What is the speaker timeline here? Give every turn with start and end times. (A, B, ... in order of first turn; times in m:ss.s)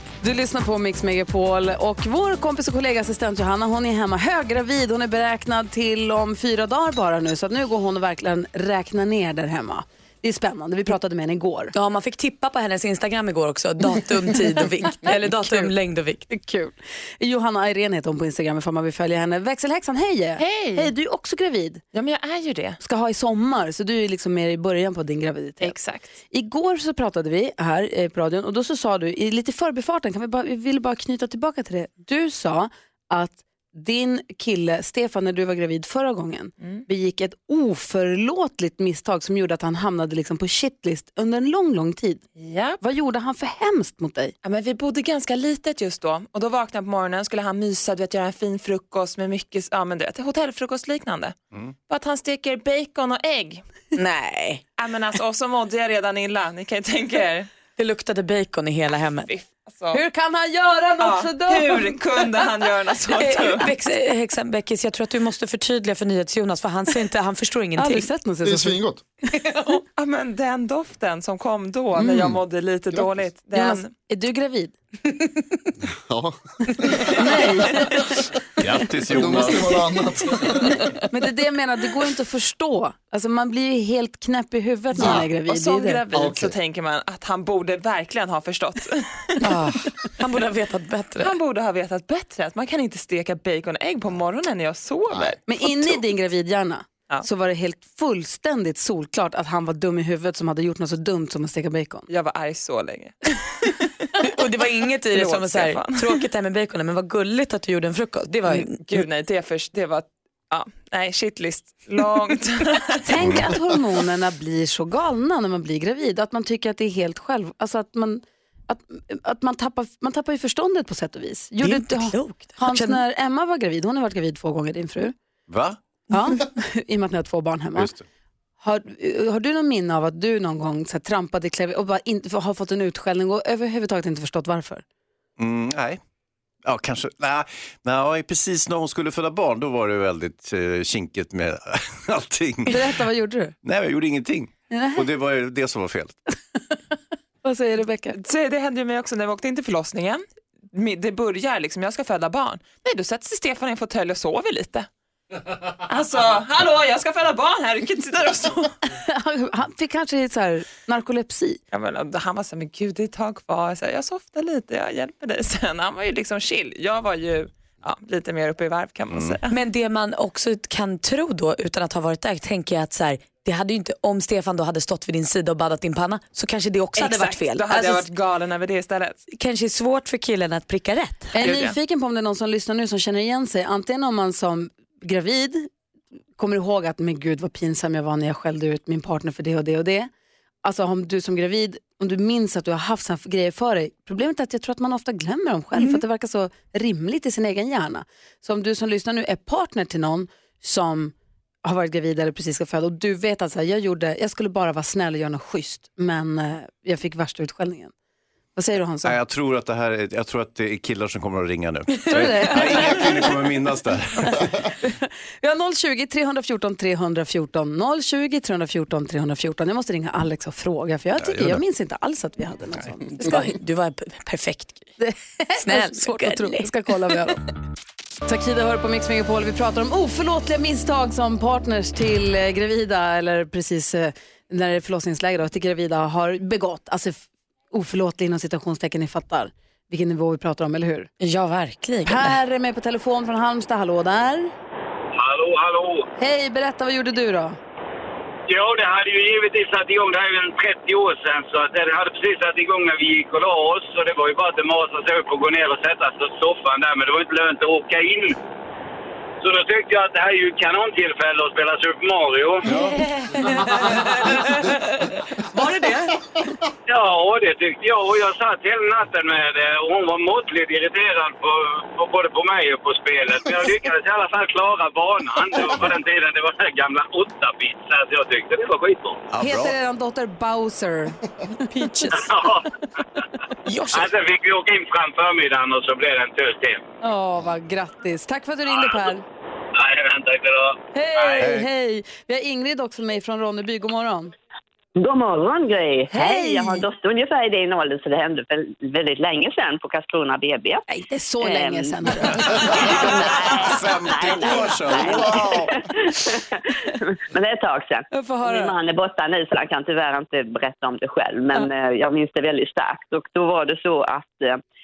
0:00.2-0:11.7 A
0:11.7-0:16.2 B
0:14.6-0:15.7 A
0:16.3-0:21.8 A
0:20.4-0:20.9 C
0:21.9-0:22.8 C
0:22.8-0:25.8 A
0:25.6-0:26.2 C
0:26.3-0:42.2 A
0:42.4-0:42.8 C
0:42.8-0:44.4 A
0:44.4-0:51.4 C
0:51.9-0:53.6 C
0:53.9-0:54.6 B
0:54.8-0:57.5 C
0:57.8-0:59.3 B
0:59.3-1:00.0 C
0:59.9-1:02.5 A
1:01.0-1:03.7 C
1:03.2-1:08.1 B
1:07.8-1:09.6 A
1:08.4-1:09.0 D
1:09.9-1:13.9 C
1:12.0-1:12.4 A
1:13.5-1:14.7 A
1:16.1-1:17.1 D
1:17.0-1:18.2 A
1:18.6-1:19.9 E
1:19.0-1:20.8 D
1:21.1-1:26.0 A
1:24.9-1:29.4 C
1:25.0-1:25.2 D
1:26.1-1:26.5 D
1:29.4-1:31.4 B
1:31.2-1:36.0 C
1:35.5-1:42.1 A
1:42.1-1:44.1 C
1:44.2-1:48.8 B
1:45.1-1:46.1 C
1:48.5-1:53.4 C
1:53.0-2:05.1 A
1:53.2-1:53.4 E
2:01.6-2:03.0 B
2:05.5-2:05.8 E
2:06.1-2:07.9 A
2:07.8-2:08.0 E
2:08.6-2:14.8 A
2:15.4-2:16.0 E
2:16.6-2:23.0 E
2:22.6-2:23.5 A
2:23.6-2:26.2 E
2:24.7-2:25.1 A
2:27.4-2:28.2 A
2:28.1-2:34.9 C
2:35.9-2:38.7 C
2:39.0-2:41.6 A
2:41.7-2:49.5 C
2:49.1-2:49.4 E
2:49.5-2:58.1 B
2:57.0-2:59.2 C
2:59.3-3:01.4 B
3:01.4-3:05.7 A
3:01.4-3:01.8 C
3:06.4-3:10.1 A
3:10.6-3:21.1 A
3:15.8-3:16.0 B
3:21.6-3:27.9 A
3:28.5-3:29.2 A
3:29.0-3:34.5 E
3:32.1-3:33.4 A
3:34.2-3:43.5 A
3:41.2-3:41.6 E
3:43.1-3:44.9 B
3:45.0-3:47.4 A
3:45.6-3:46.7 B
3:48.2-4:01.1 A
4:01.2-4:02.4 B
4:02.0-4:04.5 A
4:05.1-4:06.1 F
4:06.2-4:07.6 A
4:08.5-4:18.4 F
4:19.4-4:22.6 F
4:22.6-4:23.0 E
4:25.6-4:26.0 B
4:26.9-4:39.2 F
4:39.3-4:39.8 E
4:39.4-4:41.2 A
4:41.7-4:42.4 B
4:42.1-4:42.7 F
4:43.6-4:44.1 B
4:43.9-4:46.8 F
4:47.0-4:49.2 A
4:48.7-4:49.0 F
4:49.8-4:51.5 F
4:50.9-4:54.3 A
4:51.4-4:51.7 E
4:55.0-5:00.8 G
4:56.1-4:56.8 A
5:00.9-5:03.4 A
5:01.4-5:14.6 G
5:02.5-5:05.8 E
5:08.1-5:08.7 A